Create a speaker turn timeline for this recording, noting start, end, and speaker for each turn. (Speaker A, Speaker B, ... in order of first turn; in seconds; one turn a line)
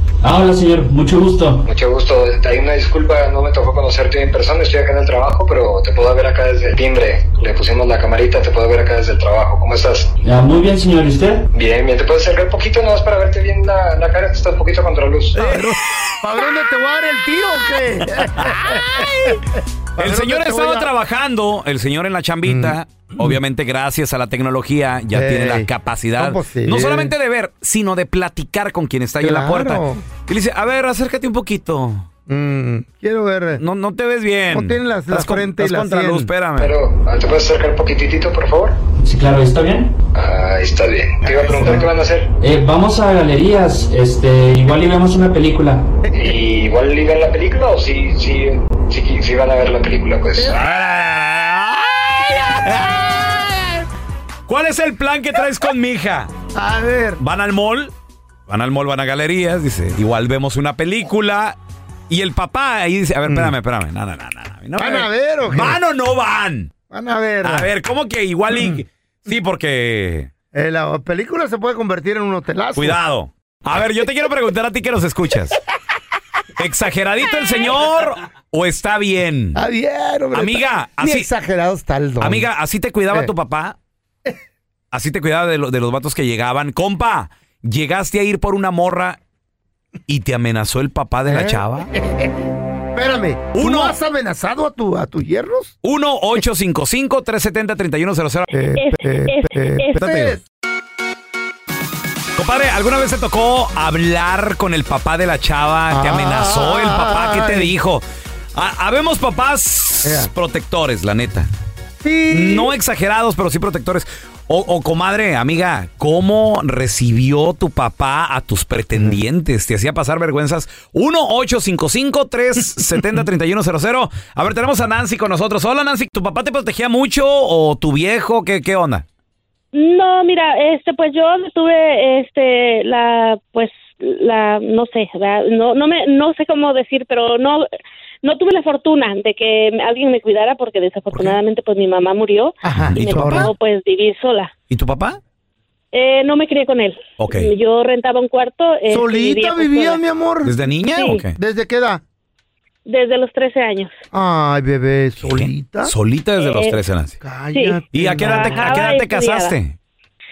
Speaker A: 0.2-1.6
Speaker B: 1.6-10.1
Speaker A: 10.2-11.4
Speaker B: 11.5-15.4
Speaker C: 15.3-20.9
Speaker D: 15.4-15.7
Speaker D: 18.1-19.4
Speaker D: 20.0-32.1
Speaker C: 22.4-23.4
Speaker C: 25.1-27.1
Speaker C: 29.2-30.0
Speaker C: 32.3-33.6
Speaker D: 33.6-36.7
Speaker C: 34.5-36.3
Speaker B: 36.5-38.8
Speaker A: 39.0-39.9
Speaker B: 40.1-42.3
Speaker C: 41.2-42.0
Speaker A: 42.4-45.8
Speaker C: 46.0-46.4
Speaker B: 46.1-50.5
Speaker D: 50.4-53.4
Speaker D: 54.5-56.3
Speaker C: 56.5-57.2
Speaker D: 57.2-57.9
Speaker D: 58.5-61.6
Speaker D: 62.1-66.7
Speaker C: 63.3-63.6
Speaker C: 64.8-65.8
Speaker C: 66.9-67.7
Speaker D: 67.4-70.3
Speaker C: 68.5-68.8
Speaker C: 70.5-73.0
Speaker D: 72.8-75.6
Speaker D: 76.6-79.6
Speaker C: 79.5-82.5
Speaker D: 80.3-81.3
Speaker D: 82.2-83.8
Speaker D: 84.9-89.2
Speaker D: 90.1-91.9
Speaker C: 91.3-95.8
Speaker D: 93.5-94.0
Speaker D: 95.8-98.5
Speaker C: 98.5-100.4
Speaker E: 98.7-100.0
Speaker D: 100.0-100.4
Speaker D: 102.3-108.0
Speaker C: 105.9-107.7
Speaker D: 108.5-111.5
Speaker C: 110.0-110.3
Speaker C: 112.0-112.8
Speaker D: 112.3-129.1
Speaker C: 118.9-119.2
Speaker E: 129.7-137.7
Speaker E: 138.2-144.5
Speaker D: 141.1-141.4
Speaker C: 142.6-143.5
Speaker D: 142.8-143.5
Speaker D: 144.7-145.2
Speaker E: 145.9-150.0
Speaker D: 147.2-147.5
Speaker C: 148.9-150.6
Speaker D: 150.4-151.4
Speaker E: 150.8-151.3
Speaker C: 151.3-152.0
Speaker E: 152.9-153.9
Speaker C: 154.1-155.9
Speaker D: 155.2-157.2
Speaker E: 156.4-156.8
Speaker C: 157.2-158.8
Speaker E: 157.5-159.6
Speaker D: 157.9-159.8